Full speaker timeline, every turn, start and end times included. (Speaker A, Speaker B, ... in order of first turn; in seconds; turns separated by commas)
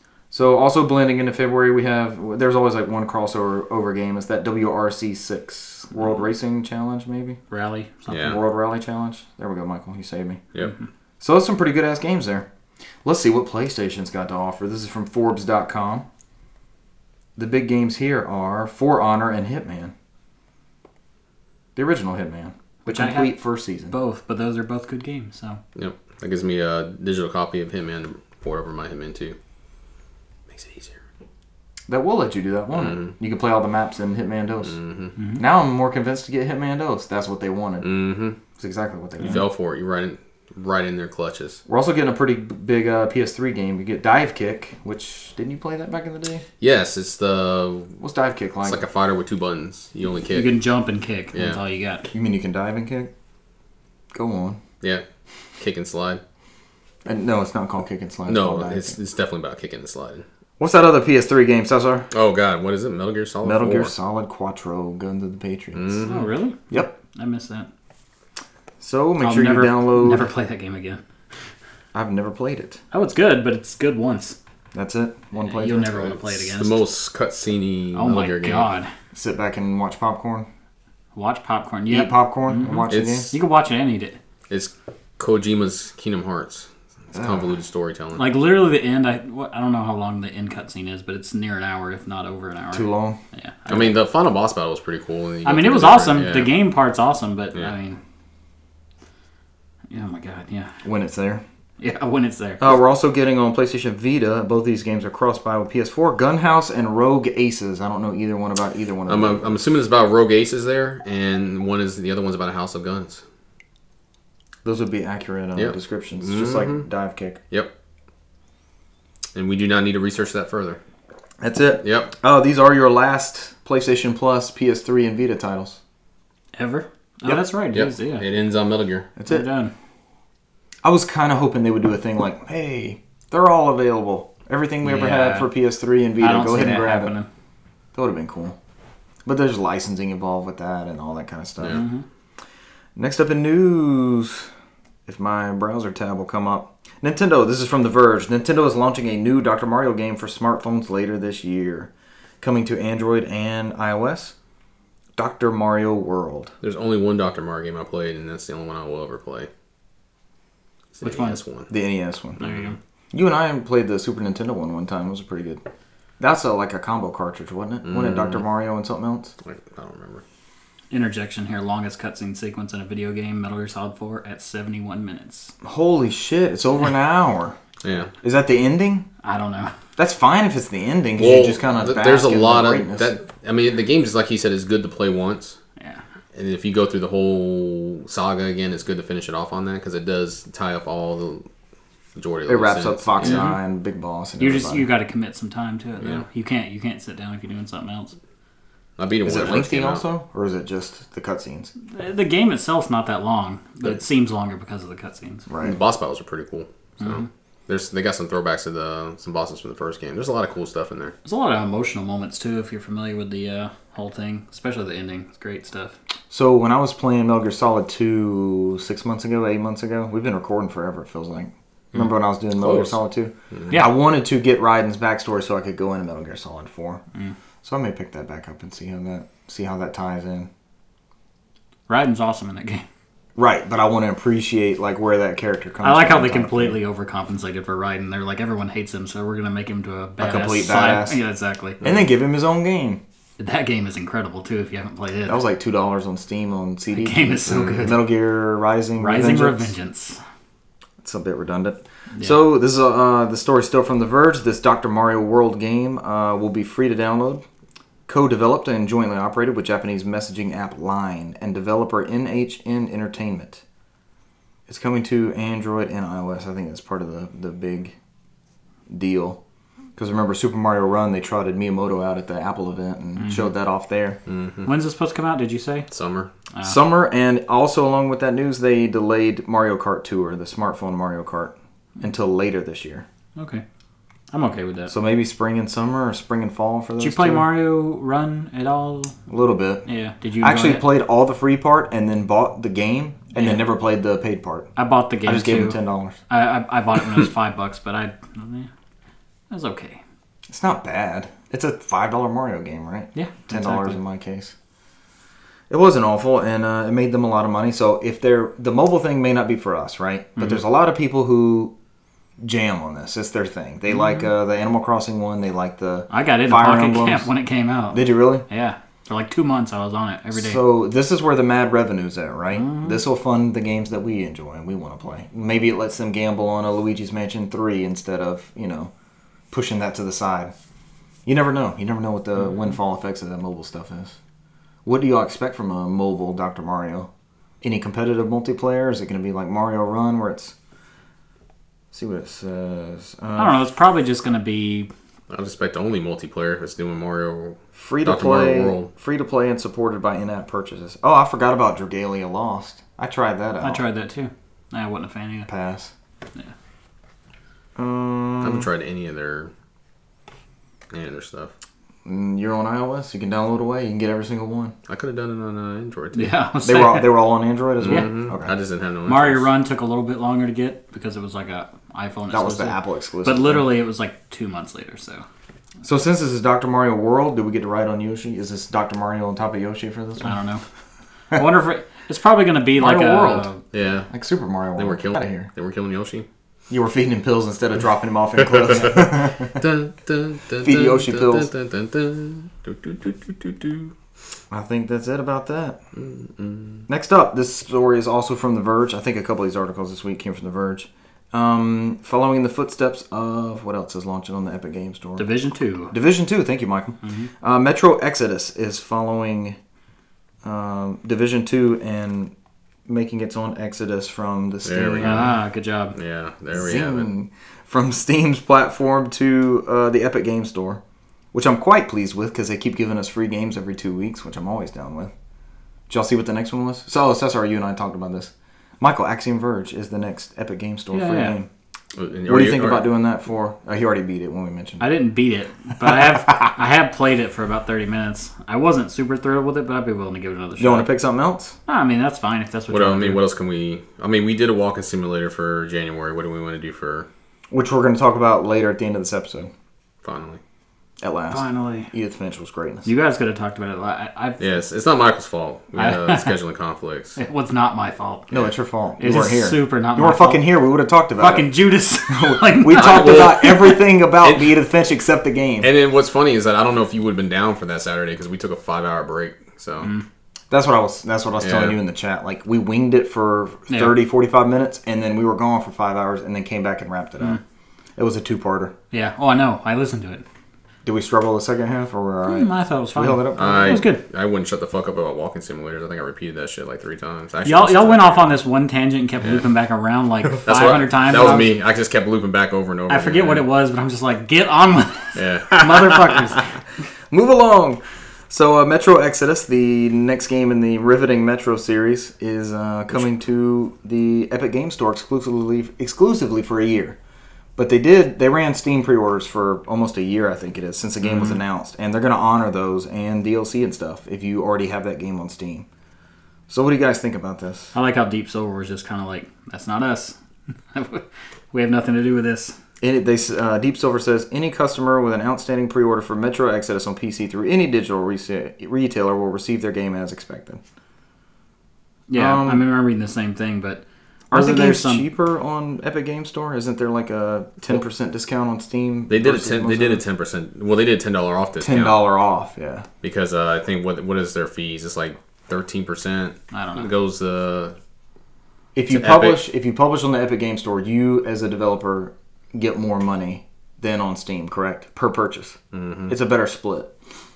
Speaker A: 0.3-7.4, Speaker B: 7.5-8.4, Speaker C: 8.1-8.4, Speaker A: 8.2-10.4, Speaker A: 11.2-12.5, Speaker A: 13.0-16.1, Speaker A: 17.4-19.9, Speaker A: 21.8-23.9, Speaker B: 22.9-23.4, Speaker B: 23.9-25.6, Speaker C: 25.8-29.4, Speaker C: 30.5-31.0, Speaker A: 31.9-34.8, Speaker C: 32.7-33.1, Speaker C: 34.7-35.1, Speaker B: 35.2-35.4, Speaker A: 35.4-37.9, Speaker C: 37.8-38.4, Speaker A: 38.6-39.5, Speaker C: 39.2-41.6, Speaker A: 41.7-46.5, Speaker C: 46.6-48.0, Speaker A: 48.0-48.8, Speaker C: 48.6-50.6, Speaker B: 50.3-52.1, Speaker C: 51.3-51.6, Speaker A: 52.1-53.1, Speaker A: 54.1-54.6, Speaker C: 55.6-56.2, Speaker A: 57.0-59.0, Speaker C: 58.3-60.2, Speaker A: 60.6-62.1, Speaker C: 62.1-63.9, Speaker A: 63.4-66.0, Speaker C: 65.7-66.3, Speaker B: 66.0-67.7, Speaker A: 68.8-70.3, Speaker B: 69.2-71.0, Speaker A: 71.9-72.8, Speaker B: 72.9-74.4, Speaker A: 74.7-76.2, Speaker B: 75.4-76.8, Speaker C: 76.5-78.7, Speaker B: 78.0-78.9, Speaker A: 79.1-80.5, Speaker B: 81.2-84.2, Speaker A: 81.9-83.3, Speaker C: 82.9-83.3, Speaker C: 84.5-88.3, Speaker A: 87.1-87.5, Speaker B: 88.2-94.0, Speaker A: 92.7-93.2, Speaker C: 93.7-96.5, Speaker B: 95.5-98.0, Speaker B: 99.9-100.7, Speaker A: 100.8-101.4, Speaker B: 101.8-102.8, Speaker A: 102.6-109.5, Speaker C: 109.1-113.2, Speaker A: 114.6-117.4, Speaker C: 115.6-116.9, Speaker C: 119.3-120.8, Speaker A: 121.4-125.8, Speaker C: 121.8-122.1, Speaker B: 126.5-128.3, Speaker C: 127.7-129.1, Speaker A: 129.2-129.4, Speaker B: 129.3-129.7, Speaker A: 130.8-137.1, Speaker B: 134.8-135.5, Speaker B: 136.2-137.3, Speaker A: 137.9-138.6, Speaker A: 139.2-141.8, Speaker B: 141.7-142.0, Speaker A: 143.0-144.5, Speaker A: 145.1-154.3, Speaker A: 155.2-156.5, Speaker C: 156.6-159.5, Speaker C: 160.9-161.7, Speaker B: 161.0-161.4, Speaker A: 161.7-162.4, Speaker C: 162.4-162.8, Speaker A: 163.1-165.6, Speaker A: 166.2-169.3, Speaker C: 167.8-168.4, Speaker C: 169.4-170.2, Speaker B: 170.9-175.5, Speaker A: 175.6-177.6, Speaker C: 177.8-178.1, Speaker A: 178.2-179.1, Speaker B: 179.2-179.7, Speaker A: 180.0-183.1, Speaker C: 181.2-185.6, Speaker C: 186.3-191.4, Speaker C: 192.2-193.5, Speaker A: 192.5-194.9, Speaker B: 193.2-193.6, Speaker B: 194.4-198.2, Speaker C: 199.0-200.1, Speaker A: 199.2-201.7, Speaker B: 201.9-205.5, Speaker A: 205.5-205.8, Speaker C: 205.6-211.1, Speaker B: 207.0-207.3, Speaker B: 211.2-215.9, Speaker A: 216.3-227.0, Speaker C: 222.6-223.0, Speaker A: 227.6-230.5, Speaker B: 231.9-232.8, Speaker A: 233.4-236.8, Speaker B: 235.8-241.8, Speaker A: 240.2-241.2, Speaker A: 241.8-243.0, Speaker B: 243.4-245.4, Speaker A: 245.3-249.7, Speaker B: 246.9-248.0, Speaker C: 247.5-247.8, Speaker B: 249.0-250.2, Speaker A: 251.0-257.4, Speaker B: 252.2-252.4, Speaker A: 258.1-263.6, Speaker A: 264.7-267.9, Speaker A: 268.9-269.4, Speaker A: 270.0-274.2, Speaker B: 273.2-273.5, Speaker C: 274.3-274.7, Speaker B: 274.6-275.9, Speaker C: 275.9-276.3, Speaker A: 276.6-283.1, Speaker B: 283.4-283.6, Speaker B: 284.3-284.9, Speaker A: 284.9-287.5, Speaker B: 287.0-289.2, Speaker A: 289.3-289.9, Speaker B: 289.9-290.9, Speaker A: 290.4-294.7, Speaker B: 294.8-298.7, Speaker A: 295.2-296.2, Speaker B: 299.5-300.0, Speaker A: 300.5-304.5, Speaker B: 303.1-304.0, Speaker A: 305.7-311.7, Speaker A: 312.4-317.3, Speaker B: 316.1-320.6, Speaker A: 317.9-318.4, Speaker A: 320.3-328.9, Speaker B: 322.5-323.0, Speaker A: 329.5-330.5, Speaker A: 331.3-334.2, Speaker A: 334.9-337.1, Speaker A: 337.6-340.6, Speaker A: 341.9-343.6, Speaker B: 343.4-344.9, Speaker C: 345.3-348.9, Speaker A: 347.8-353.8, Speaker B: 353.6-355.5, Speaker A: 355.5-355.9, Speaker A: 357.8-358.7, Speaker C: 358.4-359.5, Speaker C: 360.9-361.5, Speaker A: 362.1-364.8, Speaker C: 364.9-366.4, Speaker B: 366.1-367.3, Speaker A: 366.6-368.5, Speaker C: 367.8-369.5, Speaker B: 369.1-375.2, Speaker A: 372.3-373.7, Speaker A: 375.8-380.4, Speaker B: 380.2-380.6, Speaker B: 381.3-383.6, Speaker A: 382.8-383.5, Speaker C: 383.7-384.1, Speaker A: 384.1-385.5, Speaker C: 384.8-386.3, Speaker A: 386.7-389.6, Speaker C: 389.6-393.9, Speaker A: 390.6-391.5, Speaker A: 394.5-395.8, Speaker C: 396.0-396.9, Speaker A: 396.9-405.3, Speaker B: 405.2-405.9, Speaker A: 405.9-409.6, Speaker B: 407.0-407.3, Speaker A: 410.4-412.3, Speaker A: 412.9-415.3, Speaker C: 414.6-415.4, Speaker B: 415.0-415.9, Speaker C: 415.9-417.1, Speaker A: 416.5-420.8, Speaker A: 421.3-425.1, Speaker A: 425.9-431.5, Speaker B: 430.9-431.4, Speaker C: 431.9-432.9, Speaker A: 432.3-434.9, Speaker B: 434.8-440.9, Speaker A: 440.6-441.6, Speaker B: 441.7-443.2, Speaker C: 442.7-447.1, Speaker A: 447.5-449.5, Speaker C: 450.0-450.4, Speaker A: 451.0-452.9, Speaker B: 451.3-451.9, Speaker B: 452.9-454.4, Speaker C: 454.4-457.2, Speaker B: 455.8-456.3, Speaker B: 457.2-458.3, Speaker A: 458.3-461.5, Speaker B: 459.0-460.5, Speaker B: 461.2-463.6, Speaker A: 462.1-465.7, Speaker C: 462.7-464.6, Speaker C: 465.6-469.9, Speaker A: 470.5-477.4, Speaker C: 471.4-471.8, Speaker B: 473.7-474.0, Speaker A: 478.0-478.7, Speaker B: 478.9-480.2, Speaker A: 480.9-483.9, Speaker B: 482.3-484.0, Speaker C: 483.4-488.4, Speaker B: 487.4-491.5, Speaker C: 490.4-493.4, Speaker B: 492.9-496.5, Speaker C: 495.2-496.0, Speaker A: 497.1-507.0, Speaker A: 507.6-515.7, Speaker B: 511.1-511.4, Speaker A: 516.5-517.7, Speaker B: 517.8-520.2, Speaker B: 520.7-522.6, Speaker A: 522.8-530.6, Speaker B: 532.1-535.1, Speaker A: 532.1-532.6, Speaker A: 534.3-540.0, Speaker C: 539.1-542.0, Speaker A: 541.6-542.9, Speaker C: 543.0-547.8, Speaker B: 546.5-546.9, Speaker A: 548.8-555.6, Speaker C: 548.9-549.4, Speaker C: 555.7-556.2, Speaker A: 556.1-556.9